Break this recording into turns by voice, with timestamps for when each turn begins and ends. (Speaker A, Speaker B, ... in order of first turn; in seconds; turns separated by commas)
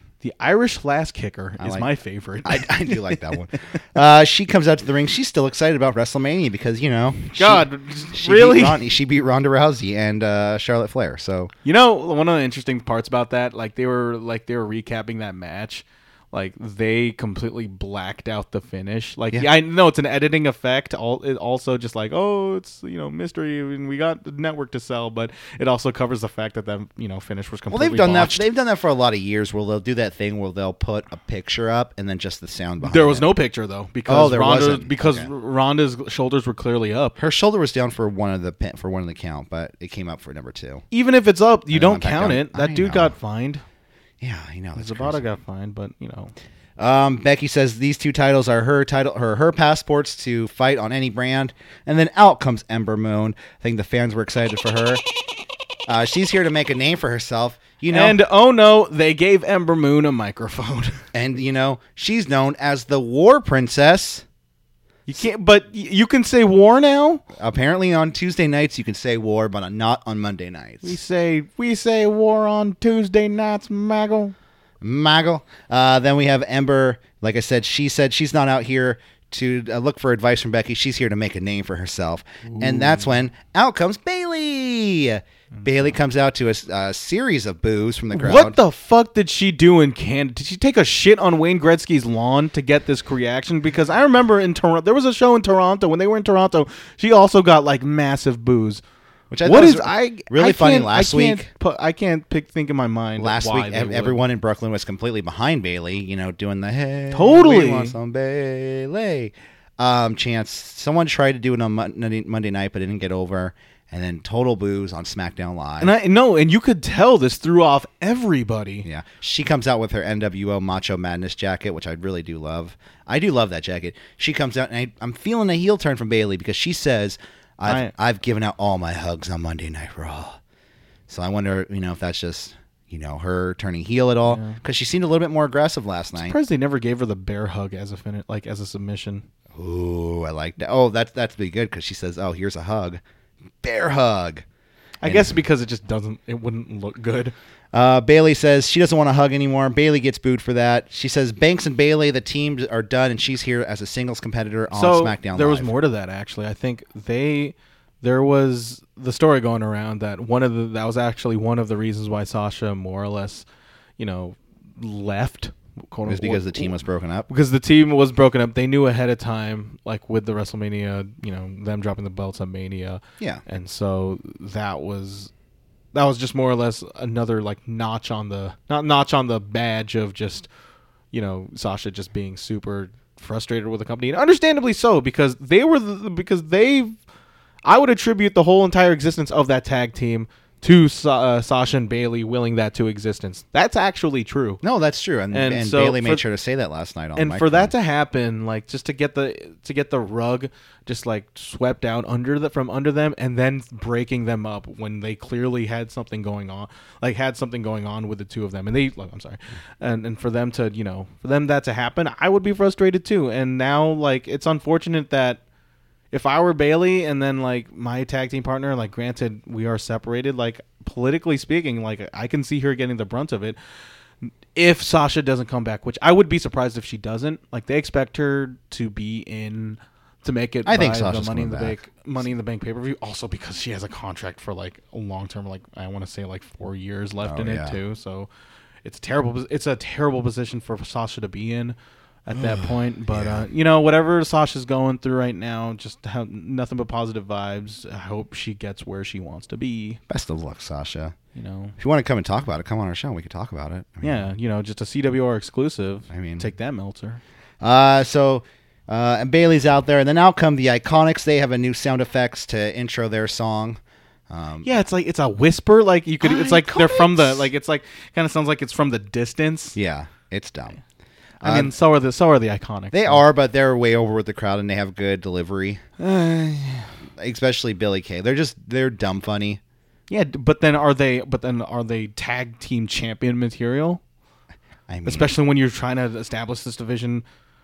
Speaker A: 0.2-3.2, Speaker B: 1.6-1.9, Speaker B: 2.4-11.5, Speaker A: 7.4-8.8, Speaker A: 11.6-28.4, Speaker B: 27.7-33.3, Speaker A: 32.8-37.2, Speaker B: 34.1-35.3, Speaker B: 37.2-40.8, Speaker A: 40.9-43.6, Speaker B: 41.7-43.1, Speaker B: 44.2-45.2, Speaker A: 44.8-46.3, Speaker B: 46.8-55.0, Speaker B: 55.9-58.2, Speaker A: 57.9-61.0, Speaker B: 61.1-64.2, Speaker A: 65.1-67.2, Speaker B: 67.3-71.0, Speaker A: 70.8-74.3, Speaker B: 74.8-88.6, Speaker A: 82.4-83.1, Speaker A: 88.1-98.8, Speaker B: 99.3-101.5, Speaker A: 99.4-104.2, Speaker B: 103.2-115.9, Speaker A: 107.1-108.0, Speaker A: 115.8-118.9, Speaker B: 118.8-130.4, Speaker A: 127.7-127.9, Speaker B: 131.1-136.4, Speaker A: 134.3-134.6, Speaker A: 136.2-139.3, Speaker B: 139.5-143.0, Speaker B: 143.6-144.4, Speaker A: 145.0-147.3, Speaker B: 145.0-145.3, Speaker B: 147.7-155.7, Speaker A: 154.7-163.4, Speaker A: 164.0-166.7, Speaker B: 166.1-167.3, Speaker A: 167.3-175.3, Speaker A: 175.9-180.5, Speaker A: 181.1-186.9, Speaker A: 187.6-194.6, Speaker B: 194.6-197.7, Speaker A: 195.3-196.2, Speaker A: 197.2-215.4, Speaker A: 216.1-223.6, Speaker A: 224.5-238.3, Speaker B: 230.7-231.8, Speaker B: 237.2-237.8, Speaker A: 238.8-241.7, Speaker A: 242.2-250.0, Speaker B: 242.3-243.5, Speaker B: 250.1-251.2, Speaker A: 251.3-251.8, Speaker B: 251.8-254.2, Speaker A: 254.0-257.2, Speaker B: 256.1-256.4, Speaker B: 257.6-264.7, Speaker A: 264.6-269.8, Speaker B: 266.2-267.5, Speaker B: 269.7-270.8, Speaker A: 271.4-273.2, Speaker B: 271.4-271.7, Speaker B: 272.9-275.9, Speaker A: 276.0-276.9, Speaker B: 277.1-279.6, Speaker A: 280.1-284.0, Speaker B: 284.9-285.3, Speaker A: 285.0-287.2